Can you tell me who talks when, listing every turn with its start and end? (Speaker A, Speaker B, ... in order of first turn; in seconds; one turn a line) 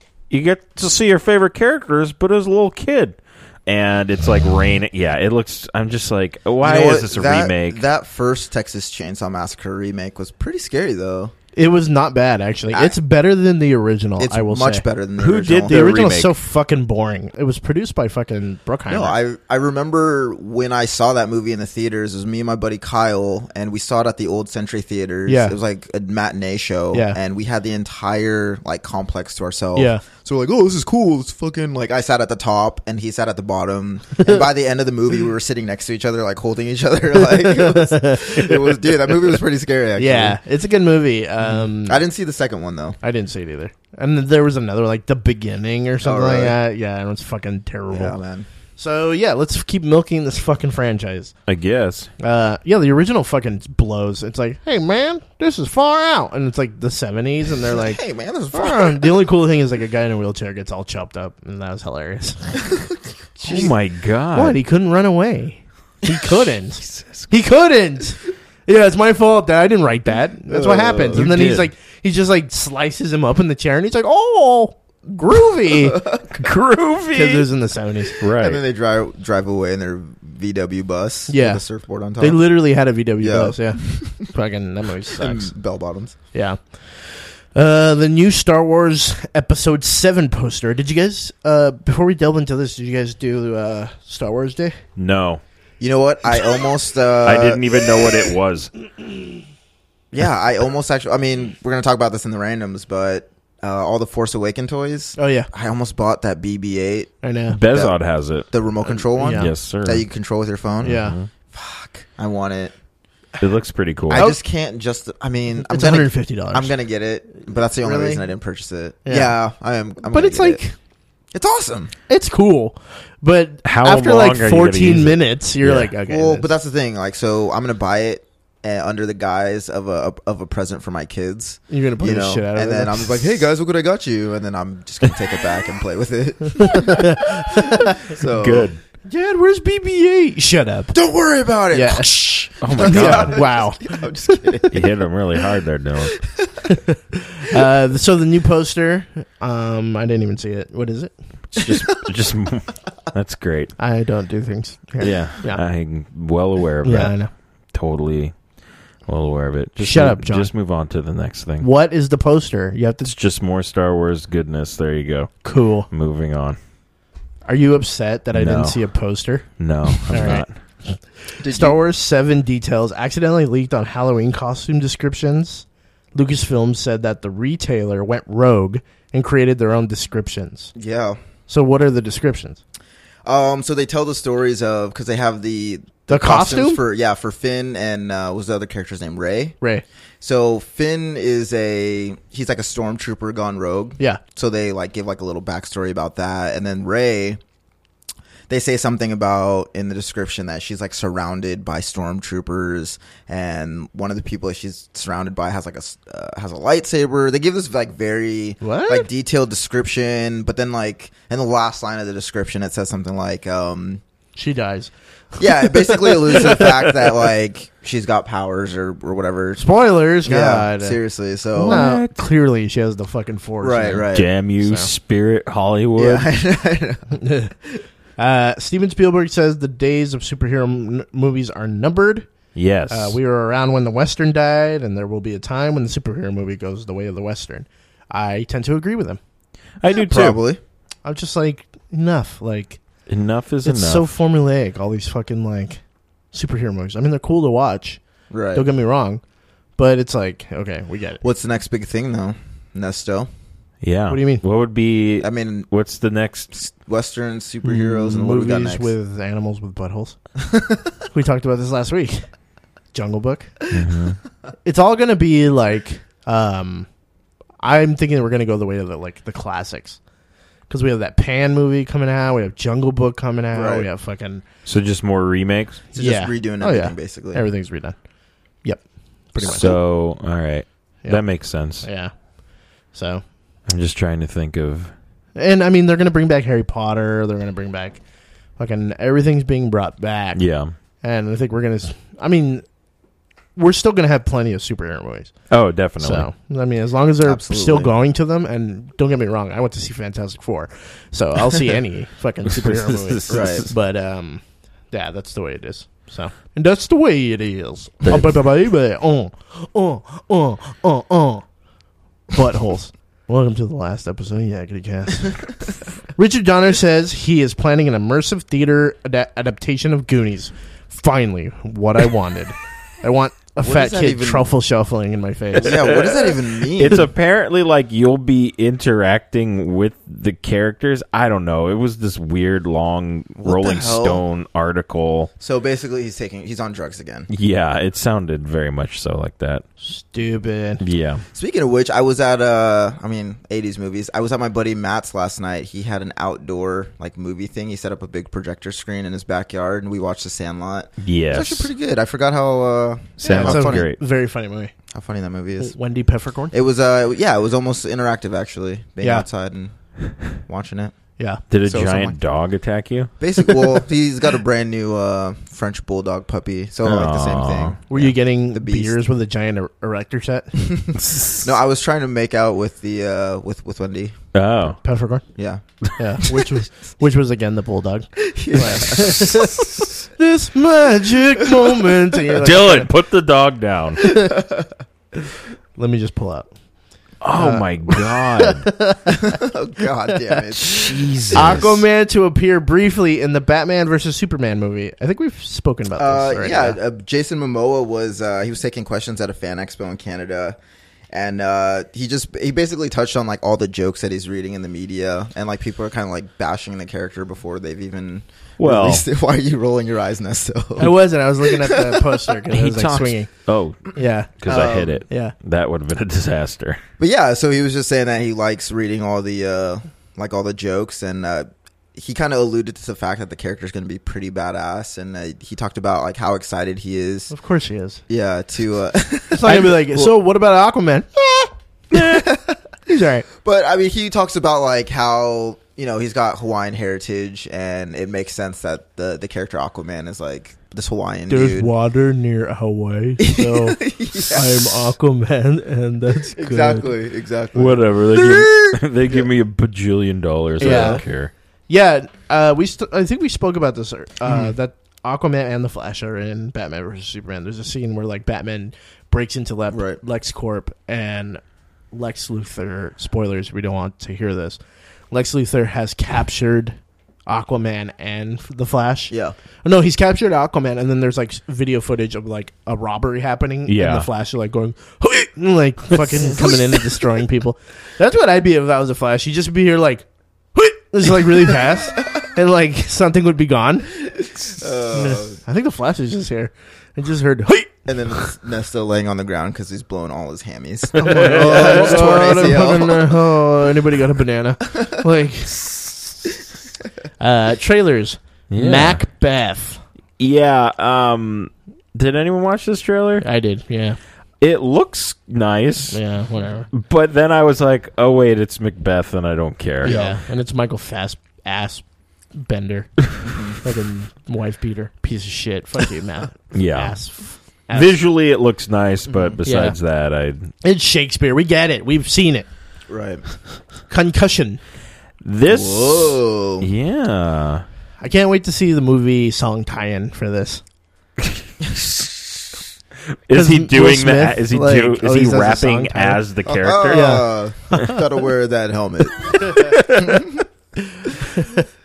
Speaker A: 0.3-7.8
Speaker B: 6.6-11.3
Speaker C: 11.6-14.8
Speaker B: 14.2-15.8
Speaker A: 15.2-16.3
Speaker C: 15.7-19.2
Speaker B: 18.9-40.4
Speaker C: 25.3-25.6
Speaker C: 26.9-27.2
Speaker C: 29.7-30.0
Speaker C: 37.2-38.6
Speaker C: 40.0-42.0
Speaker B: 41.5-43.0
Speaker C: 43.0-48.1
Speaker B: 46.0-46.6
Speaker B: 47.9-48.5
Speaker C: 48.8-51.3
Speaker A: 51.5-52.1
Speaker C: 52.2-58.0
Speaker B: 57.6-59.2
Speaker C: 58.5-62.6
Speaker B: 62.6-63.7
Speaker A: 63.4-64.6
Speaker C: 64.3-76.1
Speaker A: 66.8-67.3
Speaker B: 70.5-71.2
Speaker A: 71.1-71.7
Speaker B: 75.7-76.4
Speaker A: 76.4-77.5
Speaker C: 77.1-78.2
Speaker A: 78.2-78.6
Speaker B: 78.4-82.4
Speaker C: 81.3-81.6
Speaker C: 82.2-85.5
Speaker B: 83.2-84.3
Speaker B: 85.2-86.2
Speaker C: 86.3-94.8
Speaker A: 95.0-95.4
Speaker B: 95.8-98.1
Speaker A: 97.2-98.7
Speaker B: 100.1-107.1
Speaker C: 105.2-105.5
Speaker C: 107.2-107.6
Speaker A: 107.5-108.5
Speaker B: 107.7-108.0
Speaker B: 108.5-112.7
Speaker C: 109.1-109.5
Speaker A: 109.3-110.0
Speaker C: 110.8-111.2
Speaker A: 110.8-111.3
Speaker A: 113.4-114.3
Speaker B: 114.1-120.6
Speaker C: 115.6-116.7
Speaker C: 117.8-118.3
Speaker C: 119.0-119.3
Speaker C: 120.1-120.8
Speaker B: 121.3-121.9
Speaker C: 122.1-126.5
Speaker A: 123.6-125.9
Speaker B: 126.1-138.7
Speaker C: 131.7-133.3
Speaker C: 136.6-138.1
Speaker A: 138.4-138.8
Speaker C: 139.1-140.9
Speaker B: 140.9-144.8
Speaker C: 141.7-142.1
Speaker A: 142.6-143.4
Speaker C: 142.8-144.7
Speaker A: 144.7-146.2
Speaker B: 146.2-146.5
Speaker C: 146.7-151.1
Speaker A: 151.5-153.7
Speaker C: 153.8-155.6
Speaker A: 155.0-157.2
Speaker C: 156.8-157.3
Speaker A: 157.7-158.3
Speaker A: 159.1-161.7
Speaker C: 159.8-160.5
Speaker C: 161.6-163.1
Speaker A: 163.0-165.4
Speaker C: 165.4-165.9
Speaker A: 165.9-166.6
Speaker C: 167.4-180.7
Speaker A: 168.3-168.8
Speaker A: 169.6-170.5
Speaker B: 171.4-171.8
Speaker B: 180.7-181.2
Speaker C: 181.5-182.6
Speaker B: 183.2-189.6
Speaker C: 186.1-186.8
Speaker B: 190.2-197.4
Speaker B: 198.5-214.0
Speaker C: 208.6-209.1
Speaker C: 214.4-216.6
Speaker B: 215.4-219.7
Speaker C: 219.6-221.0
Speaker B: 220.2-221.8
Speaker A: 221.6-222.2
Speaker C: 221.6-224.1
Speaker B: 223.6-224.3
Speaker A: 224.1-226.3
Speaker C: 224.6-224.9
Speaker B: 225.9-227.2
Speaker C: 227.1-227.5
Speaker C: 228.2-232.3
Speaker A: 232.6-233.2
Speaker C: 232.9-239.2
Speaker A: 239.8-240.4
Speaker B: 239.9-240.6
Speaker C: 241.0-242.8
Speaker A: 243.1-244.1
Speaker C: 243.6-245.8
Speaker C: 246.3-248.0
Speaker B: 248.3-248.7
Speaker C: 248.5-249.2
Speaker C: 249.8-251.2
Speaker B: 251.2-253.3
Speaker A: 253.8-256.5
Speaker C: 254.1-254.4
Speaker B: 255.2-255.7
Speaker B: 256.5-258.9
Speaker C: 257.6-260.2
Speaker B: 260.4-260.9
Speaker C: 261.1-262.3
Speaker C: 262.9-263.6
Speaker A: 263.7-264.2
Speaker C: 264.6-266.9
Speaker C: 267.6-270.0
Speaker C: 270.7-274.4
Speaker B: 273.5-273.9
Speaker A: 274.6-275.8
Speaker B: 275.9-277.4
Speaker C: 275.9-278.0
Speaker C: 278.6-279.8
Speaker A: 279.4-281.9
Speaker C: 281.8-282.1
Speaker C: 282.9-283.2
Speaker A: 283.7-284.9
Speaker C: 285.4-288.0
Speaker C: 288.6-290.4
Speaker A: 290.4-290.7
Speaker C: 291.0-292.6
Speaker C: 293.6-295.3
Speaker A: 295.5-296.3
Speaker C: 296.0-311.4
Speaker B: 297.2-297.9
Speaker A: 302.5-303.7
Speaker B: 303.3-303.7
Speaker A: 308.1-308.4
Speaker C: 312.3-315.5
Speaker C: 316.1-326.1
Speaker B: 323.6-324.5
Speaker B: 325.6-327.1
Speaker A: 325.7-335.3
Speaker B: 333.4-334.2
Speaker B: 335.4-337.3
Speaker A: 337.3-339.6
Speaker C: 339.8-340.8
Speaker A: 340.8-341.2
Speaker B: 341.3-353.9
Speaker A: 351.0-351.7
Speaker A: 353.2-354.0
Speaker C: 353.2-354.7
Speaker B: 354.9-355.7
Speaker C: 355.6-356.6
Speaker B: 356.5-359.7
Speaker B: 360.3-360.9
Speaker A: 361.5-363.1
Speaker B: 361.6-362.2
Speaker B: 363.2-368.9
Speaker A: 366.8-367.8
Speaker C: 367.9-370.6
Speaker B: 370.6-374.2
Speaker A: 371.1-371.4
Speaker A: 374.3-374.8
Speaker C: 374.8-375.2
Speaker B: 375.4-375.6
Speaker C: 376.0-379.6
Speaker B: 378.2-379.4
Speaker A: 378.9-379.6
Speaker C: 380.1-382.9
Speaker A: 382.4-384.0
Speaker C: 384.0-384.3
Speaker B: 384.1-384.7
Speaker C: 385.8-386.5
Speaker A: 387.2-388.7
Speaker C: 387.4-389.3
Speaker B: 389.1-391.7
Speaker A: 390.6-391.8
Speaker C: 391.3-396.8
Speaker B: 396.0-400.6
Speaker B: 401.1-412.3
Speaker A: 408.6-409.1
Speaker C: 410.8-413.3
Speaker A: 412.5-416.8
Speaker C: 413.9-415.3
Speaker B: 414.5-415.0
Speaker B: 417.0-427.3
Speaker C: 427.3-428.0
Speaker B: 428.1-430.1
Speaker C: 429.3-432.2
Speaker B: 431.9-432.6
Speaker C: 432.9-433.2
Speaker B: 433.3-441.7
Speaker C: 441.3-446.9
Speaker B: 443.2-444.8
Speaker B: 446.3-449.2
Speaker A: 447.6-451.3
Speaker C: 450.6-451.0
Speaker B: 450.6-451.0
Speaker C: 451.7-464.6
Speaker B: 454.2-454.5
Speaker B: 459.7-460.0
Speaker C: 465.1-469.1
Speaker B: 469.1-469.4
Speaker C: 469.6-484.1
Speaker A: 473.7-474.1
Speaker B: 484.2-485.4
Speaker C: 484.9-488.3
Speaker B: 487.9-493.2
Speaker A: 491.0-492.6
Speaker C: 491.0-496.3
Speaker C: 497.2-499.8
Speaker A: 498.5-499.0
Speaker A: 500.2-503.2
Speaker C: 503.2-504.0
Speaker A: 504.4-506.0
Speaker C: 505.9-506.7
Speaker A: 506.7-510.0
Speaker B: 509.8-510.2
Speaker C: 509.8-517.9
Speaker B: 513.3-513.6
Speaker A: 516.5-517.0
Speaker A: 517.7-520.5
Speaker B: 519.1-519.4
Speaker C: 519.4-519.8
Speaker C: 520.6-522.5
Speaker B: 522.9-523.2
Speaker C: 523.9-524.6
Speaker A: 525.2-527.6
Speaker B: 525.5-526.7
Speaker C: 528.0-530.6
Speaker A: 533.3-537.2
Speaker C: 533.3-536.2
Speaker B: 536.5-540.4
Speaker C: 536.9-538.0
Speaker A: 539.5-540.2
Speaker C: 541.3-541.6